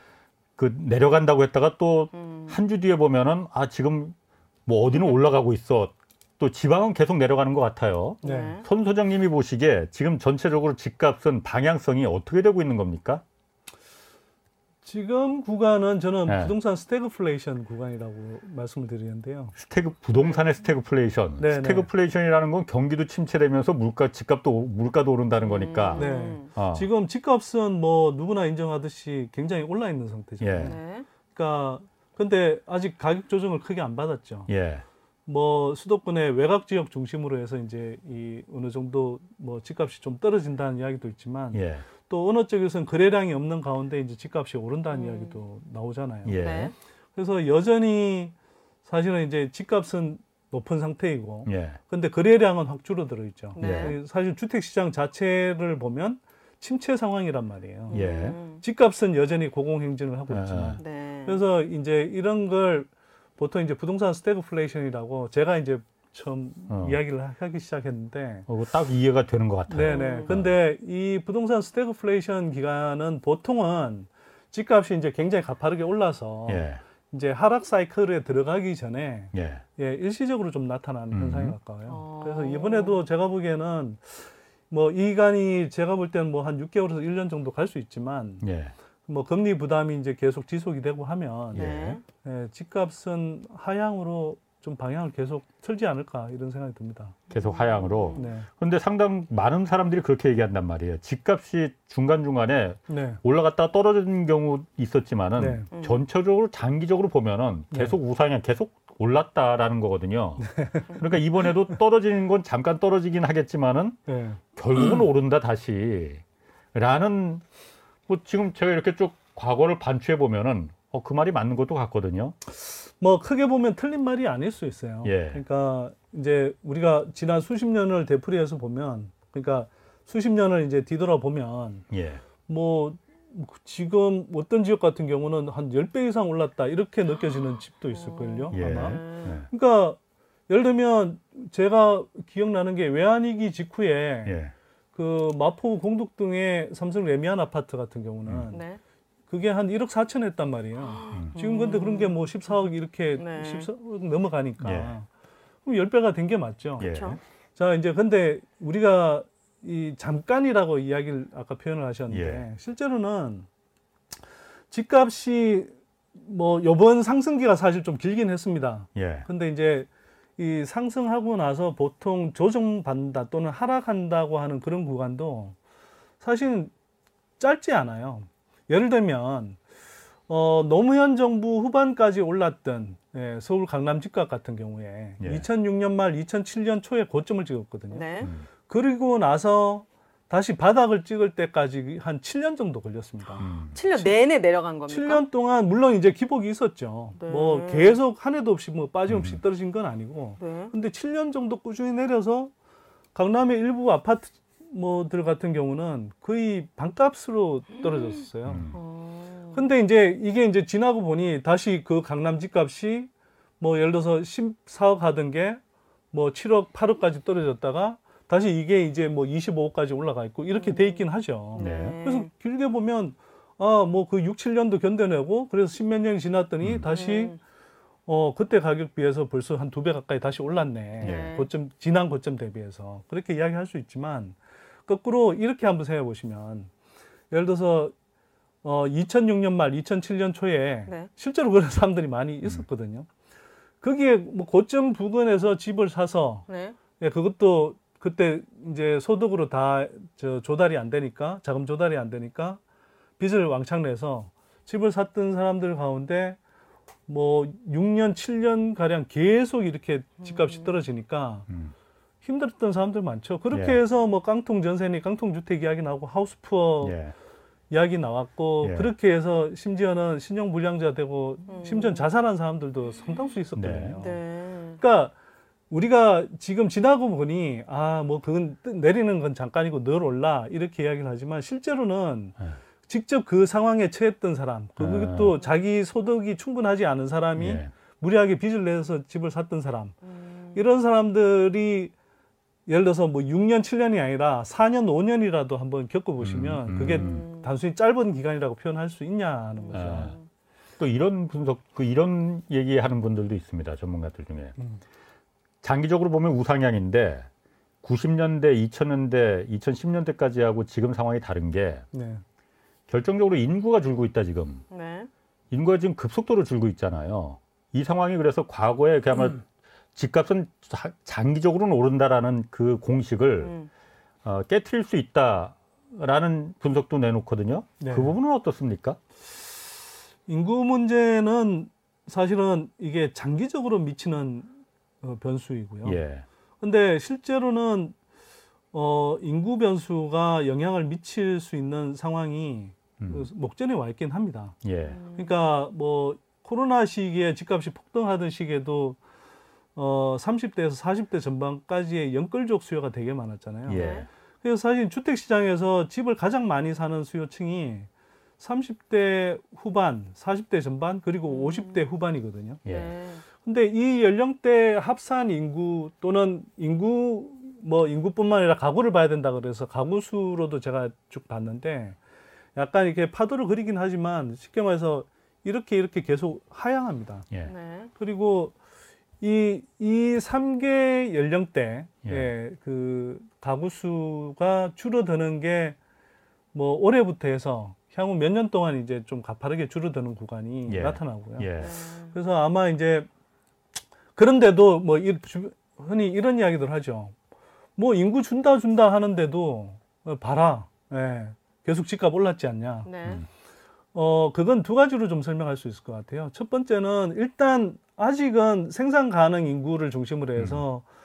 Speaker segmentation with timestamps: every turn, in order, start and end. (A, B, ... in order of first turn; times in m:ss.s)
0:00.6-0:13.2 A
0:02.2-0:02.6 B
0:08.2-0:08.6 B
0:08.2-0:08.6 C
0:14.8-0:19.5 C
0:16.3-0:16.5 A
0:19.6-0:26.9 A
0:21.4-0:21.9 C
0:25.4-0:26.5 B
0:25.9-0:30.8 C
0:30.4-0:30.8 A
0:30.6-0:31.0 B
0:31.3-0:34.5 C
0:34.5-0:34.8 A
0:35.3-0:46.4 C
0:41.5-0:41.8 A
0:44.9-0:45.4 B
0:46.2-0:46.7 A
0:46.3-0:46.7 B
0:47.2-0:48.3 C
0:48.8-1:08.4 C
0:51.4-0:51.8 A
0:53.5-0:54.0 B
0:53.6-0:54.0 A
0:57.9-0:58.6 B
0:57.9-0:58.4 A
1:00.3-1:00.8 A
1:00.8-1:01.4 B
1:06.7-1:07.0 A
1:08.5-1:10.6 A
1:09.7-1:28.4 C
1:09.8-1:10.3 B
1:16.5-1:16.8 A
1:19.3-1:19.6 A
1:21.1-1:21.6 A
1:21.9-1:23.0 B
1:28.4-1:28.7 A
1:29.1-1:31.7 C
1:31.5-1:32.0 B
1:31.5-1:32.0 A
1:32.2-1:37.2 C
1:37.3-1:38.3 B
1:37.3-1:54.0 A
1:38.1-1:38.5 C
1:42.9-1:43.2 C
1:45.4-1:45.7 C
1:45.7-1:46.0 B
1:47.7-1:48.0 C
1:50.4-1:50.9 C
1:54.1-1:54.4 C
1:54.5-1:56.2 A
1:56.7-1:57.4 A
1:58.1-2:02.4 A
2:02.5-2:11.8 C
2:05.0-2:05.4 A
2:11.9-2:12.2 A
2:12.4-2:20.0 C
2:17.9-2:19.4 B
2:18.5-2:19.5 A
2:20.5-2:24.4 C
2:24.2-2:24.5 A
2:24.9-2:28.6 C
2:28.5-2:28.8 B
2:29.3-2:35.1 C
2:30.8-2:32.2 B
2:33.1-2:33.7 B
2:34.6-2:34.9 A
2:35.6-2:43.4 C
2:36.8-2:37.2 A
2:36.8-2:37.2 B
2:42.1-2:42.5 A
2:44.7-2:55.6 C
2:48.9-2:49.2 A
2:56.2-2:56.7 C
2:57.4-2:59.6 C
3:00.3-3:14.2 C
3:05.2-3:05.4 A
3:07.9-3:08.3 B
3:13.4-3:13.7 A
3:13.7-3:15.2 B
3:14.9-3:22.5 C
3:17.2-3:18.0 B
3:19.1-3:19.4 A
3:20.4-3:20.7 B
3:23.1-3:28.7 C
3:28.4-3:28.7 A
3:28.7-3:29.6 B
3:29.5-3:35.6 C
3:36.1-3:47.4 C
3:40.5-3:42.3 B
3:41.6-3:42.0 A
3:46.9-3:47.4 B
3:48.0-3:54.3 C
3:51.0-3:51.5 B
3:51.0-3:51.3 A
3:54.9-3:56.7 C
3:57.3-3:57.9 C
3:58.6-4:03.1 C
4:03.8-4:06.4 C
4:06.5-4:06.8 B
4:07.0-4:12.6 C
4:13.2-4:16.4 C
4:17.1-4:21.5 C
4:20.2-4:20.7 B
4:22.2-4:27.0 C
4:23.5-4:23.8 A
4:26.8-4:27.1 A
4:27.7-4:34.2 C
4:28.6-4:28.9 A
4:31.5-4:32.1 B
4:33.5-4:34.0 A
4:34.0-4:34.8 B
4:34.8-4:35.1 C
4:35.7-4:49.9 C
4:44.8-4:45.4 A
4:47.4-4:47.7 A
4:50.0-4:50.6 B
4:50.5-4:51.9 C
4:52.7-5:00.1 C
4:56.2-4:57.3 A
4:56.8-4:57.5 B
4:59.6-5:00.2 B
4:59.7-5:00.1 A
5:00.8-5:04.5 A
5:05.6-5:07.3 A
5:07.8-5:11.8 A
5:11.9-5:12.2 C
5:12.9-5:14.6 A
5:14.7-5:15.1 B
5:15.5-5:19.4 A
5:20.0-5:23.5 A
5:23.4-5:23.7 B
5:24.2-5:29.0 A
5:27.8-5:28.1 C
5:30.3-5:34.5 C
5:35.0-5:36.0 C
5:35.8-5:36.2 A
5:36.6-5:37.9 C
5:38.7-5:44.6 C
5:43.0-5:43.3 A
5:44.6-5:45.0 A
5:44.8-5:45.4 B
5:45.1-5:49.0 C
5:49.7-5:57.9 C
5:53.7-5:54.1 A
5:53.7-5:54.1 B
5:58.4-6:02.6 C
6:01.3-6:01.8 B
6:02.6-6:02.9 A
6:02.6-6:03.2 B
6:03.4-6:12.0 C
6:12.5-6:17.2 C
6:17.4-6:17.9 B
6:18.0-6:18.5 C
6:19.2-6:25.8 C
6:22.0-6:22.3 A
6:26.5-6:31.5 C
6:30.7-6:31.7 A
6:31.6-6:32.2 B
6:32.1-6:33.1 C
6:34.2-6:37.1 C
6:37.8-6:42.9 C
6:42.8-6:43.2 B
6:43.9-6:50.8 C
6:50.4-6:50.6 A